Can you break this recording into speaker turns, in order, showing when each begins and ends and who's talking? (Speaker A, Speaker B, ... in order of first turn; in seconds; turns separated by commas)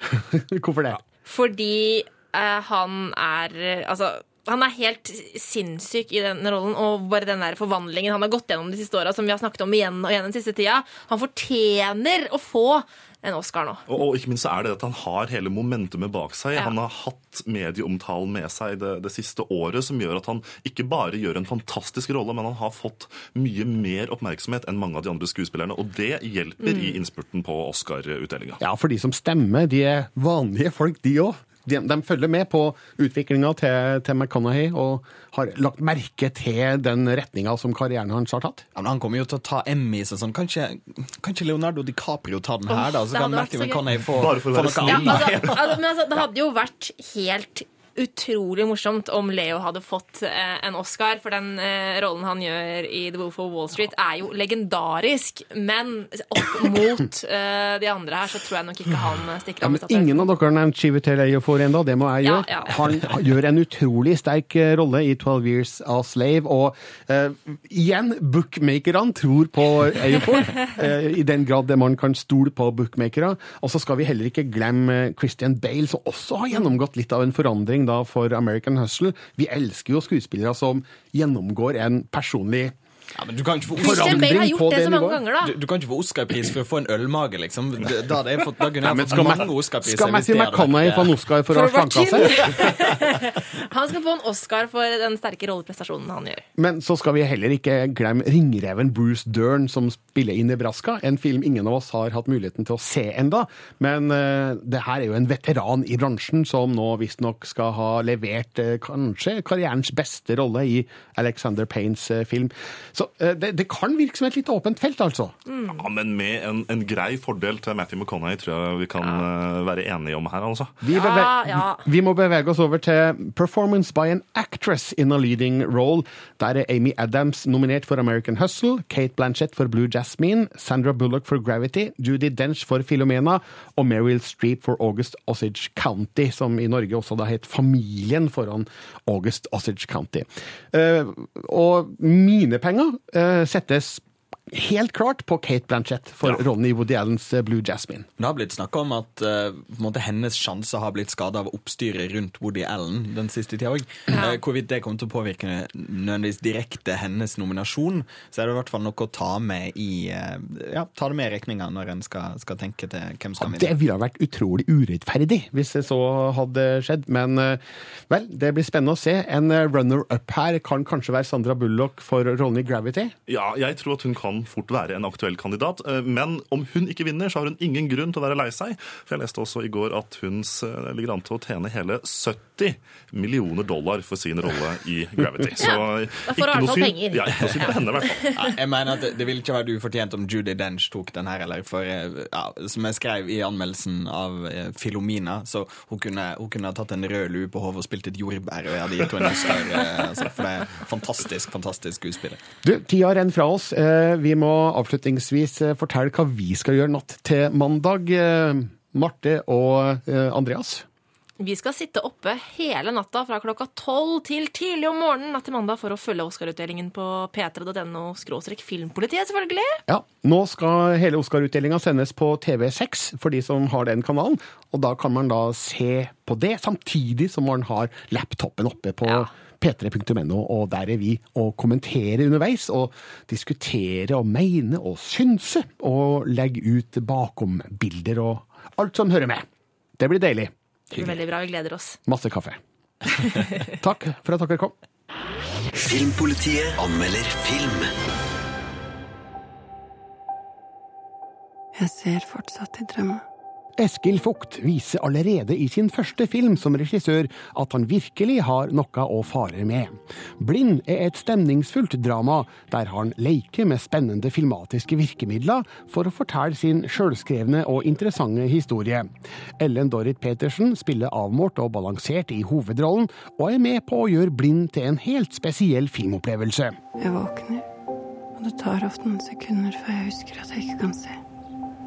Speaker A: 0.3-1.0, Speaker B: 1.2-13.8, Speaker C: 13.9-28.6, Speaker B: 26.6-27.0, Speaker A: 28.6-38.6, Speaker D: 38.7-45.5, Speaker B: 42.7-43.8, Speaker C: 44.1-45.8, Speaker B: 44.8-60.3, Speaker A: 59.6-82.7, Speaker B: 62.2-62.8, Speaker D: 83.1-84.3, Speaker A: 83.8-85.2, Speaker B: 83.8-85.5, Speaker D: 85.4-91.2, Speaker A: 88.8-92.8, Speaker B: 91.5-96.4, Speaker A: 96.6-115.3, Speaker B: 115.5-115.8, Speaker C: 115.7-120.7, Speaker A: 120.8-148.1, Speaker B: 120.9-121.8, Speaker D: 148.2-163.8, Speaker A: 163.4-173.1, Speaker C: 173.3-188.2, Speaker B: 185.6-188.3, Speaker D: 188.3-202.4, Speaker A: 202.6-210.8, Speaker B: 211.4-219.8, Speaker A: 219.9-239.4, Speaker A: 240.0-241.2, Speaker B: 241.0-242.0, Speaker A: 242.1-242.6, Speaker A: 243.8-244.7, Speaker E: 245.9-247.9, Speaker F: 251.7-253.2, Speaker A: 253.8-276.8, Speaker F: 277.0-277.6, Speaker F: 278.4-281.2